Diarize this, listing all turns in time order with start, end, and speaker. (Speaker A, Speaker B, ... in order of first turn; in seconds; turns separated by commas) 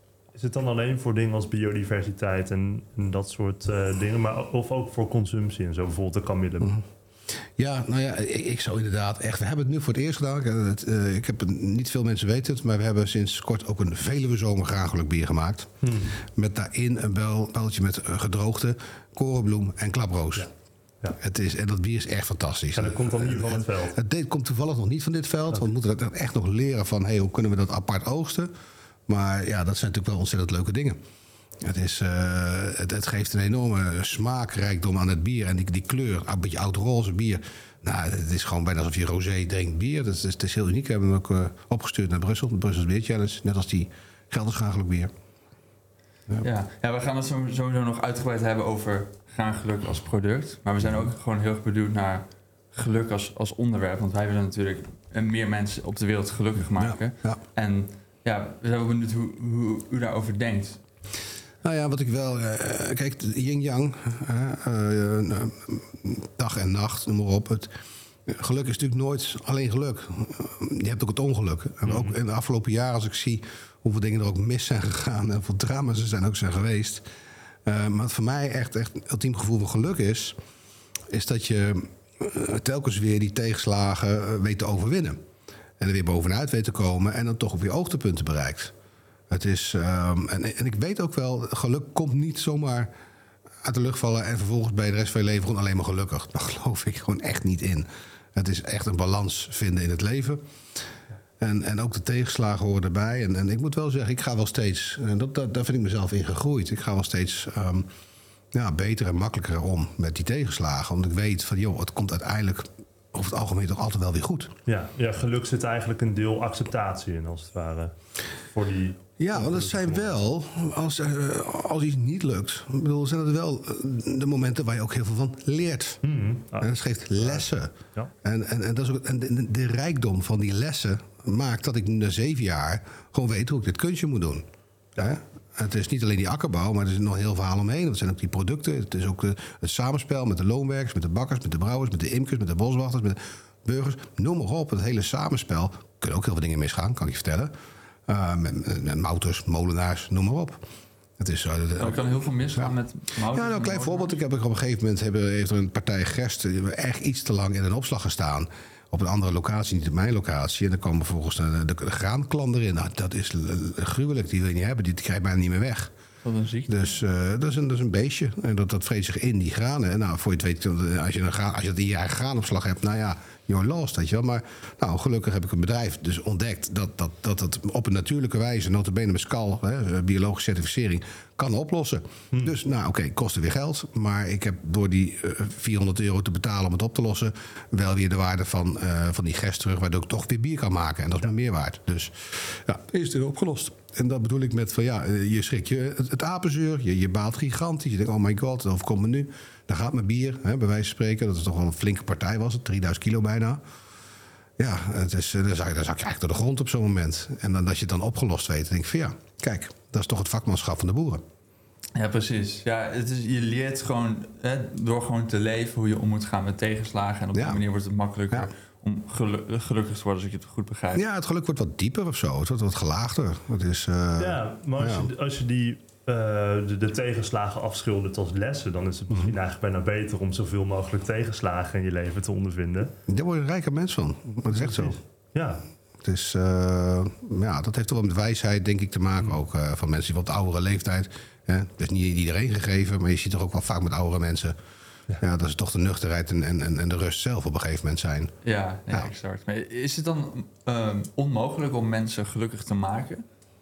Speaker A: 0.3-6.8, Speaker B: 7.6-20.5, Speaker A: 15.8-16.1, Speaker B: 21.2-28.5, Speaker A: 22.7-24.0, Speaker B: 29.1-31.0, Speaker B: 31.6-45.1, Speaker C: 46.4-60.8, Speaker B: 56.8-57.4, Speaker B: 61.6-67.7, Speaker B: 68.3-77.0, Speaker A: 71.8-72.1, Speaker B: 77.6-80.3, Speaker B: 81.1-85.2, Speaker B: 85.8-88.7, Speaker B: 89.3-92.9, Speaker B: 93.6-100.4, Speaker B: 101.4-107.9, Speaker B: 108.5-114.5, Speaker A: 114.7-117.9, Speaker A: 118.5-120.2, Speaker B: 119.2-126.0, Speaker A: 126.0-126.7, Speaker B: 126.6-147.5, Speaker B: 148.1-150.6, Speaker B: 151.2-152.7, Speaker C: 151.8-154.2, Speaker B: 153.3-165.9, Speaker C: 166.2-166.9, Speaker B: 166.7-203.6, Speaker B: 204.6-211.2, Speaker C: 211.9-221.0, Speaker B: 217.3-217.6, Speaker B: 220.9-225.1, Speaker A: 224.2-232.9, Speaker B: 233.1-235.0, Speaker A: 234.5-235.6, Speaker B: 236.0-244.6, Speaker B: 245.2-248.3, Speaker C: 248.4-253.2